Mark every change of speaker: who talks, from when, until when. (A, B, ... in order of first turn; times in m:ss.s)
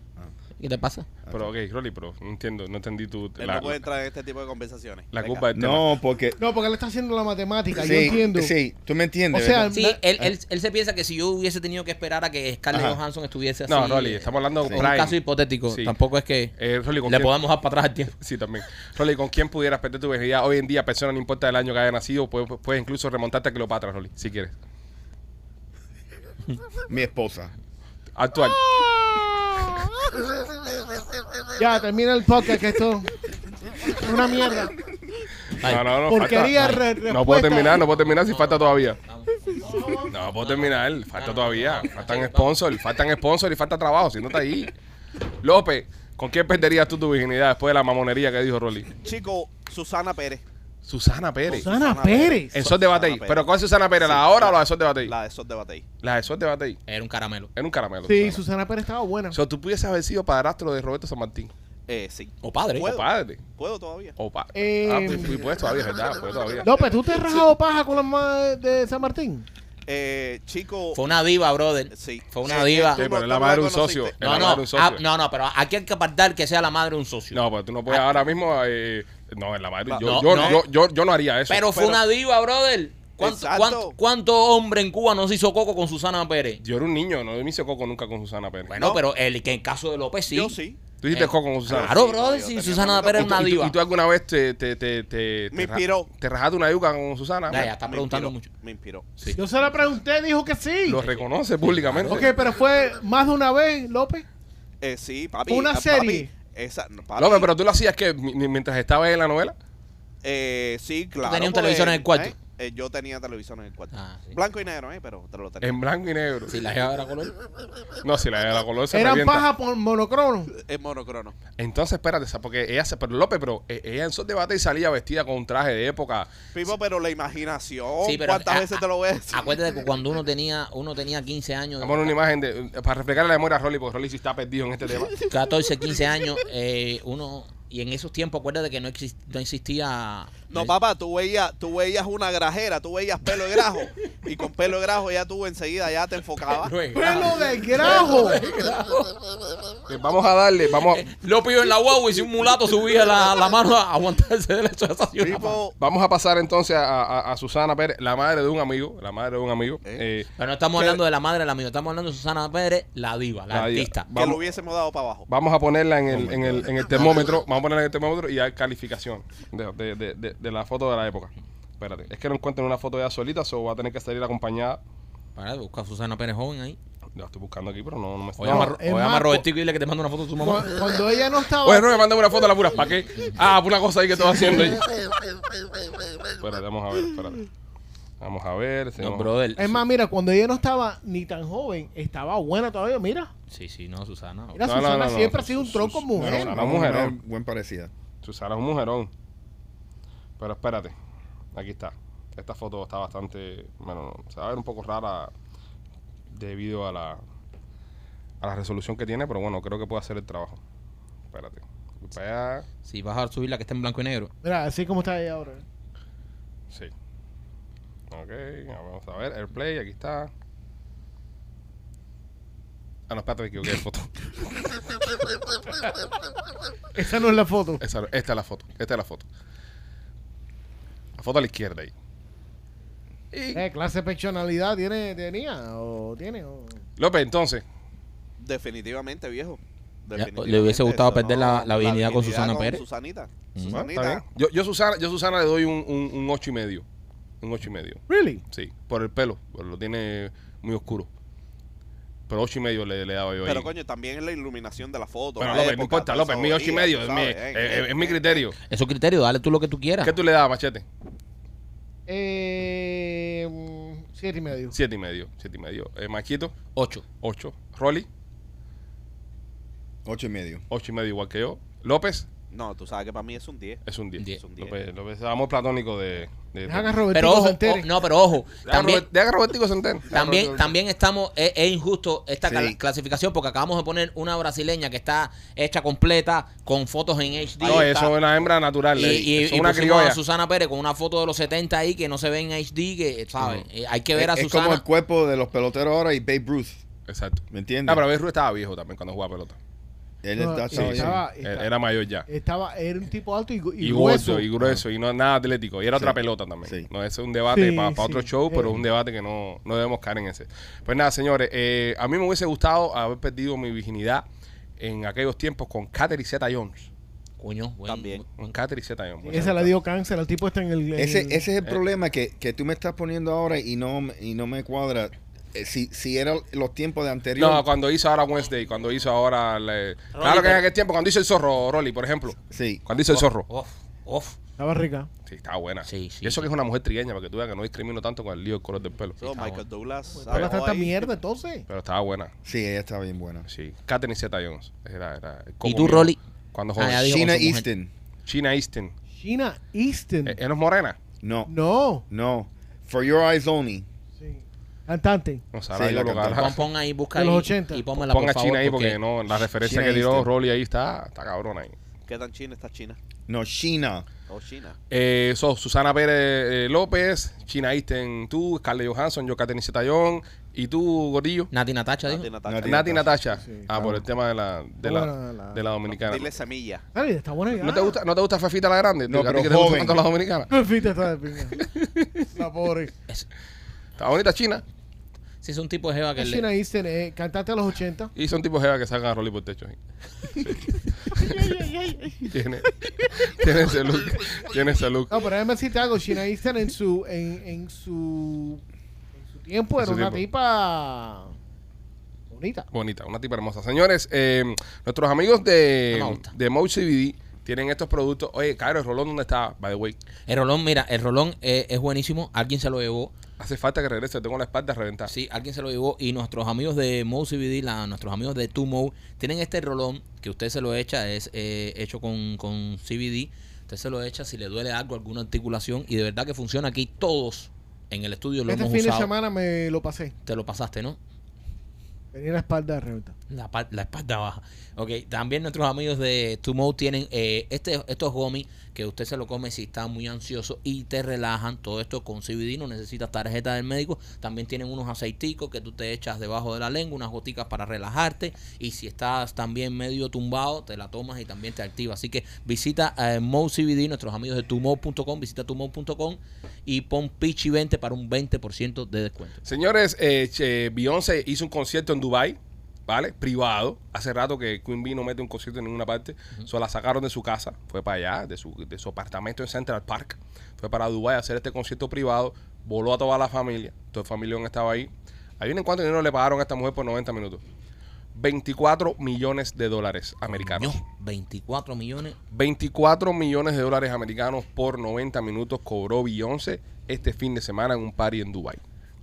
0:00.6-0:01.1 A
0:01.2-0:01.5 B
0:01.3-0:03.8 C
0:03.4-0:05.5 D
0:05.1-0:05.9 C
0:05.5-0:06.4 B
0:06.4-0:08.5 E
0:07.8-0:09.7 B
0:09.3-0:10.0 E
0:09.7-0:16.5 A
0:12.7-0:13.0 B
0:13.7-0:15.2 C
0:15.7-0:15.9 C
0:16.6-0:17.3 C
0:17.1-0:18.1 A
0:18.2-0:24.5 C
0:26.9-0:27.5 B
0:28.2-0:28.7 C
0:28.7-0:29.7 E
0:31.6-0:33.1 E
0:33.8-0:34.7 E
0:35.6-0:35.8 A
0:35.6-0:39.0 C
0:36.1-0:37.8 E
0:36.5-0:36.8 A
0:37.8-0:42.5 A
0:39.6-0:40.1 E
0:40.1-0:44.7 C
0:45.4-0:48.9 C
0:49.0-0:50.4 D
0:50.8-0:51.7 C
0:51.5-0:53.5 D
0:51.5-0:52.6 E
0:52.5-0:55.1 C
0:54.0-0:55.8 D
0:56.0-0:56.8 C
0:56.9-0:57.5 A
0:57.6-0:58.4 C
0:58.0-0:59.4 E
0:59.3-1:01.5 C
1:01.9-1:04.1 D
1:02.4-1:02.9 A
1:02.8-1:03.4 C
1:04.2-1:06.7 C
1:04.5-1:05.4 E
1:06.6-1:09.4 E
1:09.8-1:11.0 D
1:10.9-1:13.0 A
1:11.9-1:14.6 D
1:13.0-1:15.0 C
1:14.2-1:18.1 A
1:17.3-1:21.9 C
1:19.9-1:20.6 D
1:20.0-1:20.6 A
1:21.5-1:26.6 A
1:23.2-1:24.0 D
1:26.6-1:28.8 C
1:28.7-1:30.6 A
1:30.3-1:30.8 D
1:31.0-1:32.0 C
1:31.1-1:33.8 A
1:31.7-1:33.4 D
1:33.1-1:37.7 C
1:35.5-1:36.1 D
1:37.5-1:38.5 A
1:37.5-1:39.2 D
1:39.3-1:41.0 E
1:40.8-1:42.3 C
1:41.0-1:42.3 A
1:42.0-1:44.2 E
1:44.8-1:47.5 D
1:45.5-1:46.3 E
1:47.2-1:49.5 C
1:50.2-1:55.8 D
1:51.2-1:52.3 A
1:53.9-1:54.4 A
1:55.6-1:56.5 C
1:56.5-1:57.3 A
1:58.0-1:59.4 C
1:58.9-2:00.5 E
2:00.5-2:01.4 D
2:01.6-2:06.3 C
2:06.5-2:09.8 D
2:08.0-2:12.1 A
2:11.8-2:15.1 C
2:15.3-2:20.7 A
2:20.5-2:26.8 D
2:26.5-2:29.2 A
2:26.9-2:28.4 E
2:29.9-2:31.0 C
2:30.9-2:35.6 A
2:35.2-2:35.7 D
2:35.8-2:40.3 C
2:40.4-2:44.1 A
2:43.5-2:44.4 C
2:44.1-2:45.3 D
2:45.3-2:54.8 C
2:46.1-2:46.7 B
2:55.4-2:56.8 A
2:57.2-2:58.7 C
2:58.4-3:00.7 A
2:58.4-2:59.4 E
3:00.4-3:01.9 E
3:01.6-3:04.9 C
3:06.4-3:07.4 C
3:08.2-3:09.3 C
3:09.0-3:09.8 A
3:09.6-3:13.3 E
3:13.5-3:14.6 A
3:14.5-3:16.6 E
3:14.6-3:17.2 C
3:16.2-3:17.9 B
3:18.2-3:19.1 C
3:20.4-3:20.9 C
3:21.5-3:25.3 C
3:26.3-3:27.2 C
3:28.4-3:30.6 C
3:31.3-3:32.6 C
3:32.8-3:34.3 A
3:34.4-3:35.6 E
3:38.1-3:40.3 C
3:43.1-3:44.8 C
3:47.0-3:47.8 E
3:47.8-3:49.2 C
3:51.2-3:51.9 C
3:53.3-3:53.6 C
3:53.5-3:56.8 E
3:57.0-3:57.6 C
3:58.4-4:04.2 D
4:00.1-4:02.8 A
4:03.5-4:03.8 A
4:03.7-4:06.8 C
4:07.4-4:11.1 C
4:08.1-4:08.4 E
4:12.3-4:13.7 C
4:13.4-4:18.4 D
4:15.4-4:18.5 C
4:18.7-4:20.1 A
4:20.0-4:20.8 C
4:22.1-4:24.8 E
4:24.7-4:26.6 C
4:26.7-4:27.0 A
4:27.2-4:28.1 C
4:30.0-4:30.6 B
4:30.7-4:32.3 C
4:32.5-4:34.7 D
4:33.8-4:37.0 C
4:36.6-4:37.9 E
4:37.1-4:39.0 A
4:38.6-4:40.1 C
4:40.1-4:40.7 B
4:40.1-4:47.9 A
4:42.4-4:42.8 B
4:47.6-4:48.1 D
4:47.6-4:50.2 C
4:48.9-4:54.8 A
4:53.4-4:53.6 C
4:54.1-4:56.8 B
4:57.1-4:59.6 C
4:57.5-4:58.0 B
5:00.2-5:01.2 B
5:00.4-5:01.7 E
5:00.7-5:02.3 C
5:02.3-5:04.5 E
5:03.8-5:14.2 C
5:05.9-5:06.9 B
5:07.5-5:08.8 E
5:14.8-5:16.9 C
5:17.4-5:18.2 A
5:17.9-5:18.2 D
5:18.3-5:19.7 C
5:19.3-5:21.5 E
5:21.0-5:27.6 B
5:27.4-5:33.4 C
5:30.1-5:30.6 A
5:32.5-5:32.8 B
5:33.1-5:34.4 A
5:34.6-5:35.1 E
5:35.2-5:39.2 C
5:35.8-5:36.5 A
5:39.2-5:39.6 A
5:39.2-5:41.0 D
5:40.1-5:41.6 E
5:41.7-5:42.3 C
5:42.4-5:43.4 B
5:43.5-5:47.1 C
5:45.6-5:46.2 A
5:46.8-5:47.6 A
5:47.0-5:47.9 B
5:48.3-5:48.9 C
5:49.2-5:50.4 E
5:50.2-5:51.0 C
5:51.2-5:51.5 B
5:51.5-5:52.0 E
5:52.1-5:53.8 B
5:54.2-5:55.4 E
5:55.5-5:56.6 C
5:55.7-5:56.6 B
5:56.3-5:59.0 A
5:57.1-5:57.8 E
5:57.9-6:01.8 C
5:59.4-6:00.3 B
6:02.1-6:03.0 D
6:03.3-6:04.1 B
6:04.3-6:04.8 D
6:04.9-6:11.5 C
6:11.5-6:12.3 A
6:12.1-6:13.1 D
6:12.4-6:13.1 B
6:12.6-6:16.3 C
6:13.3-6:13.7 E
6:13.8-6:14.0 B
6:14.8-6:15.6 E
6:15.9-6:16.8 D
6:16.9-6:17.9 E
6:17.5-6:20.5 C
6:19.1-6:20.0 B
6:20.5-6:21.6 E
6:21.6-6:22.1 C
6:22.3-6:22.9 E
6:24.0-6:24.6 C
6:25.4-6:26.5 A
6:26.2-6:28.1 E
6:28.1-6:29.7 C
6:30.3-6:31.6 C
6:31.1-6:33.3 E
6:32.3-6:35.2 C
6:35.1-6:38.6 E
6:39.2-6:41.3 E
6:39.8-6:40.2 C
6:42.3-6:42.7 E
6:42.7-6:50.0 C
6:45.9-6:46.3 A
6:50.3-6:53.1 A
6:53.4-6:55.1 C
6:55.1-7:09.1 A
7:08.5-7:10.1 E
7:10.2-7:11.0 A
7:12.1-7:13.1 E
7:13.3-7:39.4 A
7:39.4-7:57.4 C
7:58.1-8:00.8 C
8:00.4-8:02.2 A
8:02.3-8:08.6 C